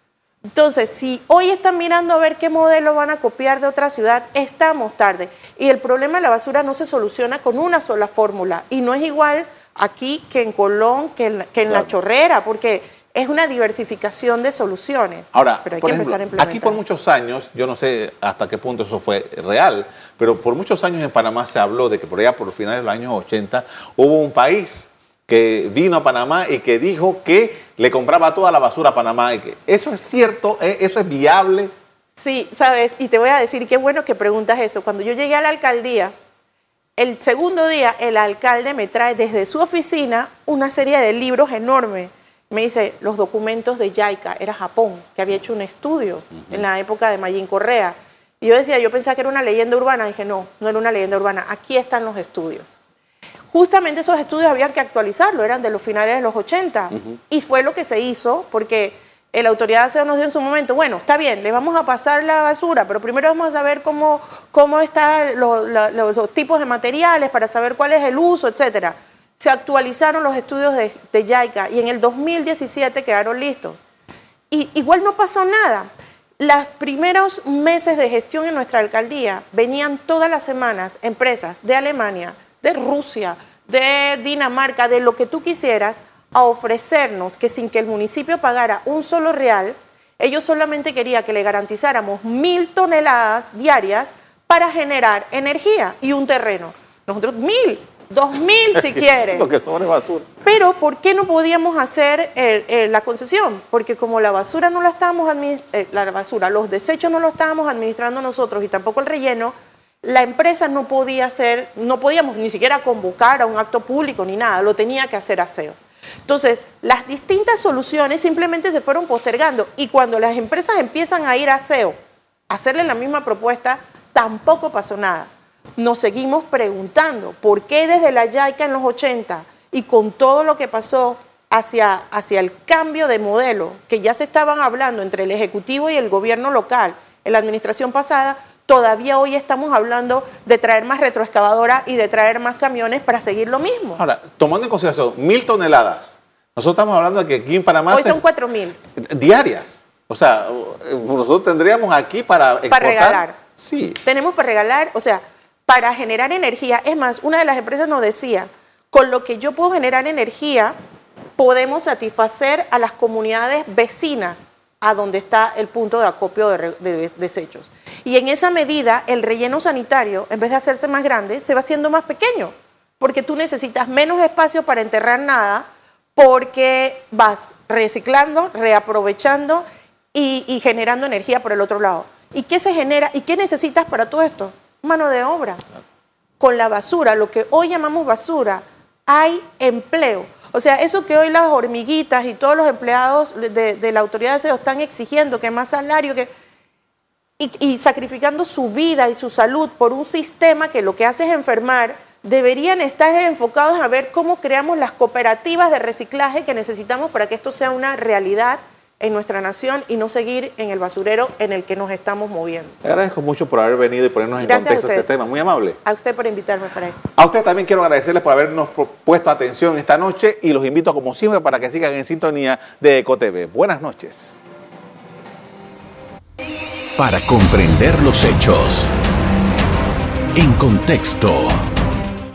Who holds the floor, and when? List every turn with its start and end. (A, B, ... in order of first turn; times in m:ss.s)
0:00.6-0:16.8 A
0:15.3-0:31.7 B
0:32.2-0:36.1 A
0:37.0-0:52.7 A
0:53.5-1:13.8 A
1:14.5-1:39.5 A
1:38.8-1:40.3 B
1:40.4-1:55.8 A
1:56.3-2:02.0 A
2:02.5-2:24.0 A
2:24.0-2:28.2 B
2:27.9-2:28.8 A
2:29.0-2:34.0 B
2:32.7-2:33.4 A
2:34.0-2:40.7 A
2:41.4-3:05.6 A
3:06.4-3:16.3 A
3:17.4-3:32.7 A
3:32.8-3:35.8 B
3:34.4-3:35.1 A
3:35.8-3:37.0 A
3:37.2-3:44.4 B
3:47.0-3:48.9 C
3:50.4-3:51.6 C